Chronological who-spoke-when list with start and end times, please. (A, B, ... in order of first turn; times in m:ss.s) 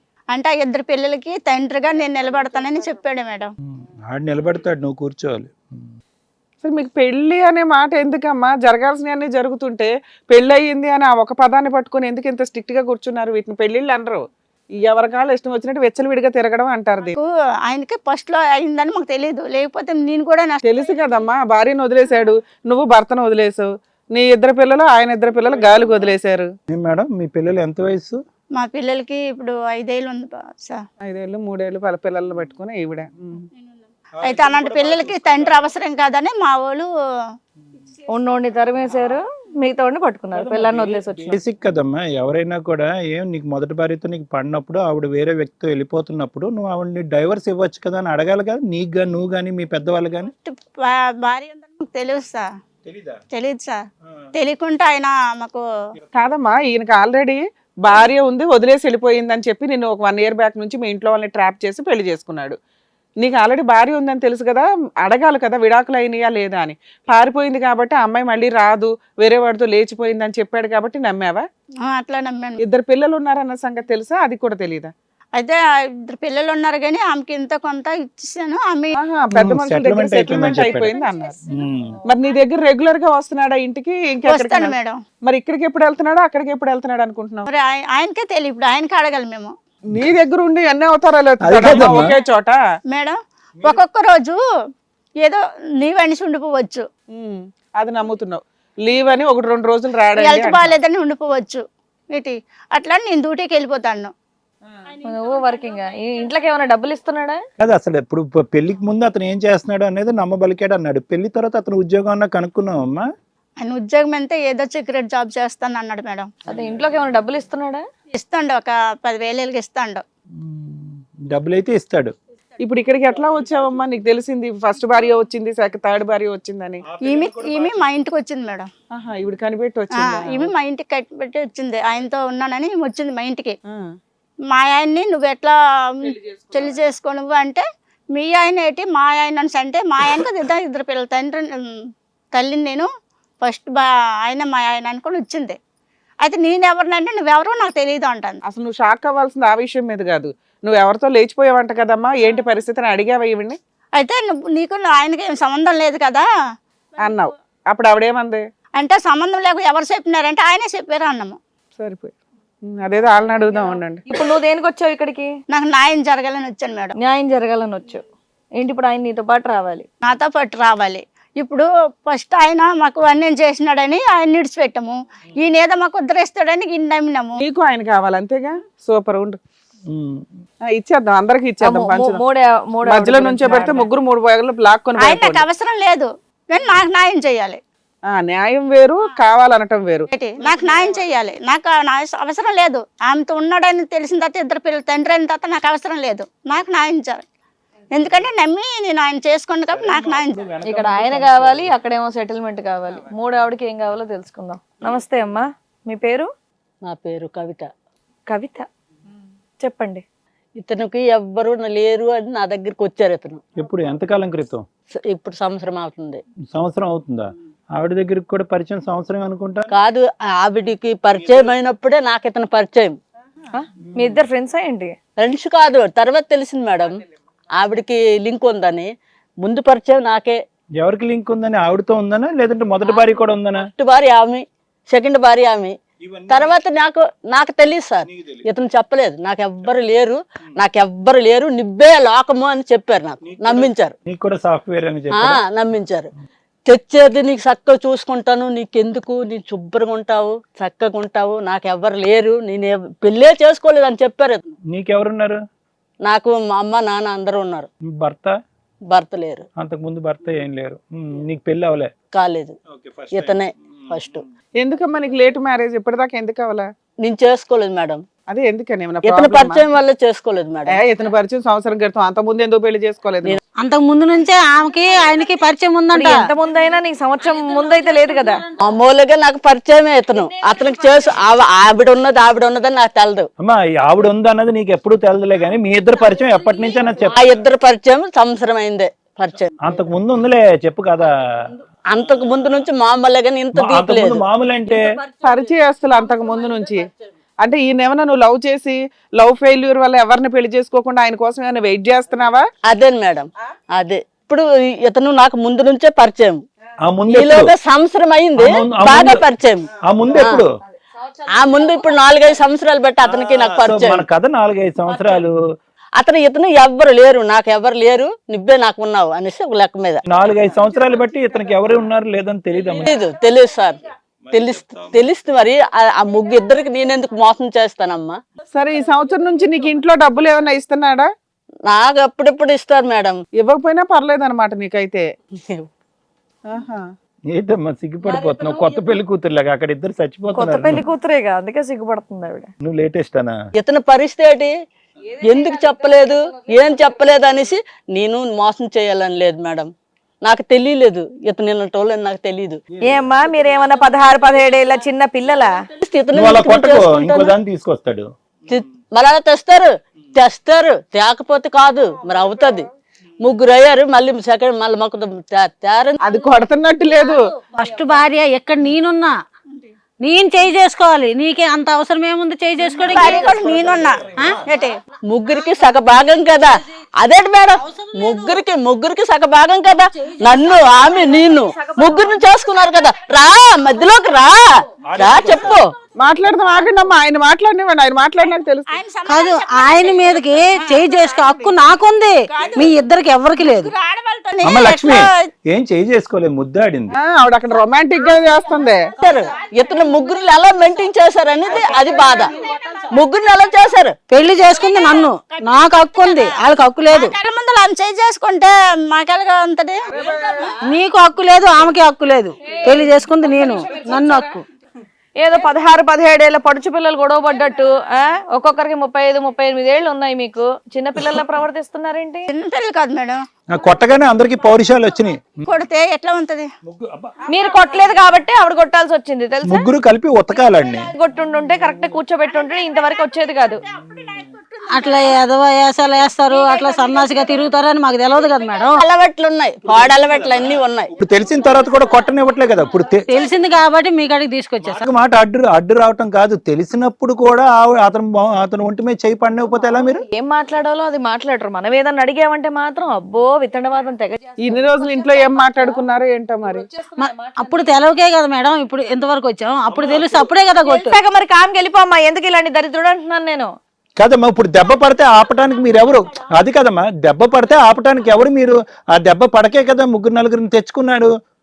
0:00.3-0:03.5 A
0:03.7-0:05.9 B
0:06.6-0:14.2 C
0:14.8-0:17.1 C
0:17.1-0:20.6 A
0:20.6-0:26.5 C
0:26.7-0:28.2 B
0:28.6-0:30.8 A
0:31.0-0:33.5 C
0:33.6-0:36.9 A
0:34.2-0:35.7 B
0:38.1-0:41.4 D
0:40.3-0:50.3 B
0:50.4-0:52.5 A
0:52.8-0:53.2 B
0:53.3-0:53.8 A
0:54.3-0:55.6 A
0:56.1-1:02.6 C
1:03.2-1:11.4 C
1:11.8-1:12.6 A
1:12.6-1:14.9 C
1:15.3-1:19.0 A
1:19.0-1:21.4 C
1:19.3-1:20.9 B
1:21.5-1:22.0 B
1:22.0-1:27.5 C
1:24.2-1:25.0 A
1:27.5-1:29.5 A
1:29.9-1:32.6 C
1:31.4-1:32.2 B
1:32.9-1:34.4 A
1:35.2-1:36.8 A
1:37.1-1:40.7 C
1:40.2-1:44.1 A
1:45.0-1:47.4 D
1:47.6-1:53.1 B
1:53.6-1:56.3 A
1:56.5-1:57.8 D
1:58.1-2:00.0 A
2:00.4-2:02.2 B
2:02.6-2:06.8 C
2:06.9-2:07.8 B
2:07.0-2:08.7 A
2:08.9-2:10.5 C
2:10.0-2:13.6 A
2:14.5-2:17.6 A
2:18.1-2:21.6 A
2:22.3-2:22.9 A
2:23.4-2:25.6 A
2:26.2-2:28.4 A
2:28.4-2:33.6 C
2:34.0-2:36.3 A
2:37.0-2:38.4 C
2:38.8-2:41.4 A
2:41.8-2:42.1 C
2:42.7-2:44.0 C
2:44.1-2:45.3 D
2:45.5-2:47.0 A
2:47.0-2:48.0 D
2:48.6-2:49.8 D
2:50.0-2:57.4 A
2:57.4-2:59.4 C
2:59.9-3:00.3 B
3:00.7-3:02.2 C
3:01.6-3:03.8 D
3:02.8-3:05.4 C
3:05.0-3:07.6 A
3:08.1-3:10.1 C
3:10.1-3:17.2 A
3:17.9-3:20.4 A
3:19.7-3:21.7 B
3:20.7-3:26.3 D
3:26.8-3:27.7 E
3:28.3-3:28.7 D
3:29.6-3:30.0 D
3:30.6-3:33.4 E
3:33.6-3:34.6 B
3:35.0-3:36.2 E
3:36.5-3:39.7 B
3:39.7-3:43.0 E
3:43.5-3:45.0 D
3:45.2-3:46.9 E
3:47.5-3:50.4 E
3:50.8-3:53.7 B
3:53.6-3:55.8 E
3:56.0-3:56.6 B
3:56.3-4:03.9 E
3:58.1-3:58.4 B
4:03.2-4:05.4 B
4:05.1-4:06.1 E
4:06.7-4:14.4 E
4:14.7-4:15.4 B
4:16.0-4:17.7 E
4:17.9-4:18.4 B
4:18.9-4:19.4 E
4:19.6-4:21.9 B
4:22.1-4:22.5 E
4:22.7-4:24.2 B
4:23.1-4:24.2 E
4:24.6-4:26.7 C
4:27.0-4:28.0 E
4:28.3-4:29.7 C
4:29.1-4:30.8 E
4:30.7-4:33.4 C
4:33.6-4:36.1 F
4:35.9-4:38.4 D
4:38.6-4:43.3 E
4:43.4-4:47.3 B
4:47.1-4:49.5 E
4:49.6-4:51.5 B
4:51.9-4:54.2 E
4:53.5-4:54.9 B
4:55.2-4:56.9 C
4:57.4-5:02.5 C
5:02.7-5:06.4 E
5:06.9-5:07.6 B
5:07.1-5:10.4 E
5:08.4-5:09.2 B
5:09.8-5:10.5 B
5:11.3-5:14.0 E
5:13.1-5:15.4 B
5:16.0-5:20.0 E
5:20.1-5:23.0 B
5:22.9-5:28.2 E
5:24.3-5:25.0 B
5:28.5-5:31.1 C
5:31.7-5:33.2 E
5:33.4-5:35.1 C
5:35.4-5:35.7 E
5:36.5-5:36.8 C
5:37.3-5:40.8 B
5:40.4-5:42.5 D
5:42.6-5:43.4 B
5:43.6-5:44.5 E
5:45.2-5:49.7 E
5:50.2-5:52.6 E
5:52.7-5:53.1 B
5:52.8-5:55.6 D
5:55.8-5:57.3 E
5:56.2-5:58.1 B
5:58.5-6:02.7 E
6:03.2-6:06.0 E
6:06.0-6:07.2 C
6:07.5-6:09.1 F
6:10.0-6:13.4 F
6:12.9-6:14.8 A
6:13.1-6:13.9 B
6:15.1-6:24.5 E
6:17.8-6:18.2 F
6:24.8-6:25.6 B
6:25.0-6:25.7 E
6:26.0-6:28.7 C
6:28.7-6:31.6 A
6:29.0-6:33.7 F
6:32.3-6:32.8 A
6:33.5-6:35.1 A
6:34.4-6:36.9 B
6:36.9-6:38.9 C
6:39.0-6:42.2 E
6:42.9-6:44.0 E
6:44.1-6:47.1 F
6:46.9-6:49.8 A
6:50.6-6:54.4 F
6:55.2-7:02.3 D
7:02.3-7:03.2 A
7:03.6-7:05.5 B
7:05.5-7:06.5 A
7:06.6-7:07.2 B
7:07.3-7:09.6 D
7:09.5-7:10.9 B
7:10.9-7:13.6 D
7:13.8-7:14.0 B
7:14.3-7:15.1 A
7:14.7-7:18.8 F
7:18.8-7:20.9 E
7:19.8-7:20.3 B
7:21.0-7:23.1 B
7:23.1-7:24.8 F
7:24.6-7:30.0 B
7:30.1-7:34.2 D
7:34.4-7:36.7 C
7:36.9-7:41.0 F
7:40.7-7:43.5 D
7:44.0-7:51.1 B